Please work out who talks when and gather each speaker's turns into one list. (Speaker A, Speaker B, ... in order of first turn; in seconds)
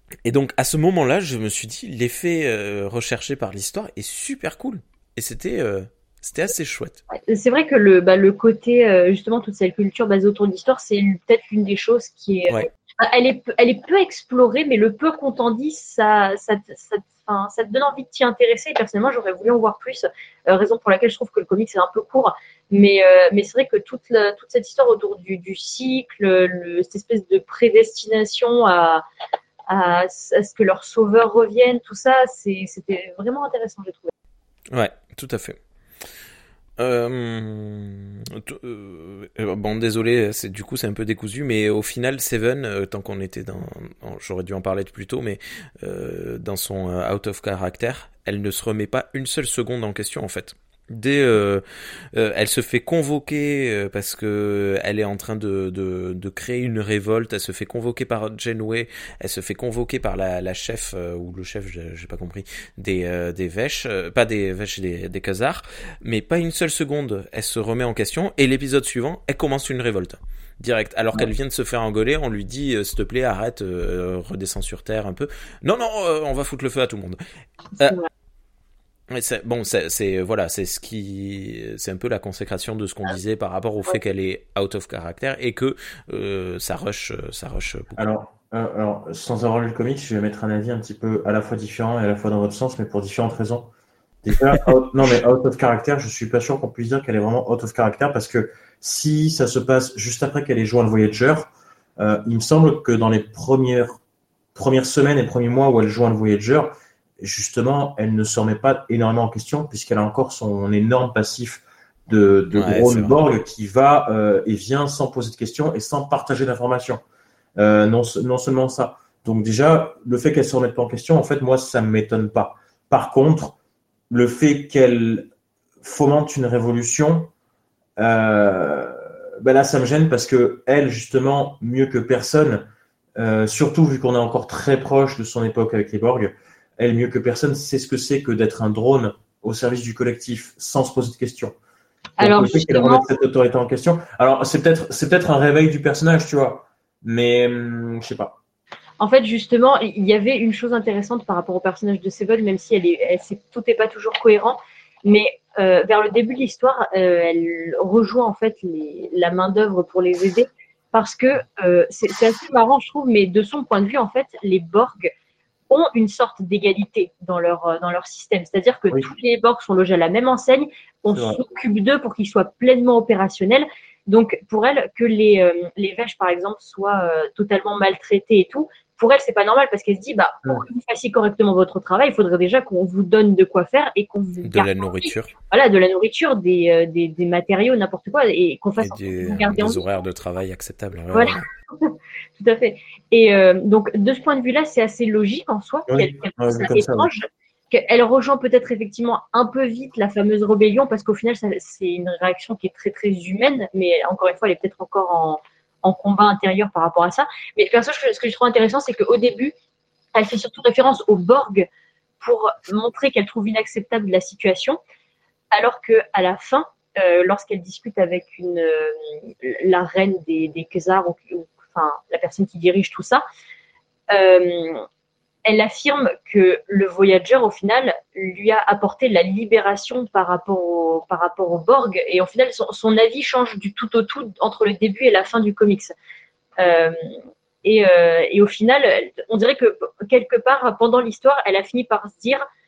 Speaker A: 0.3-7.0, 34.7-35.6, 36.8-77.2, 79.1-88.1, 112.5-113.2, 184.4-185.3, 188.8-191.4
Speaker B: 7.1-29.0, 29.7-34.1, 77.8-78.1, 142.2-143.1, 149.0-165.1, 165.7-189.8, 191.1-209.5, 210.2-211.7, 212.2-214.8, 215.5-223.2, 224.1-224.9, 225.4-235.9, 236.6-242.4
Speaker C: 88.0-93.7, 94.2-104.0, 104.5-117.0, 117.6-123.6, 124.1-125.3, 125.8-127.3, 128.0-132.7, 133.2-141.6, 142.2-148.4, 171.1-171.4, 195.9-197.1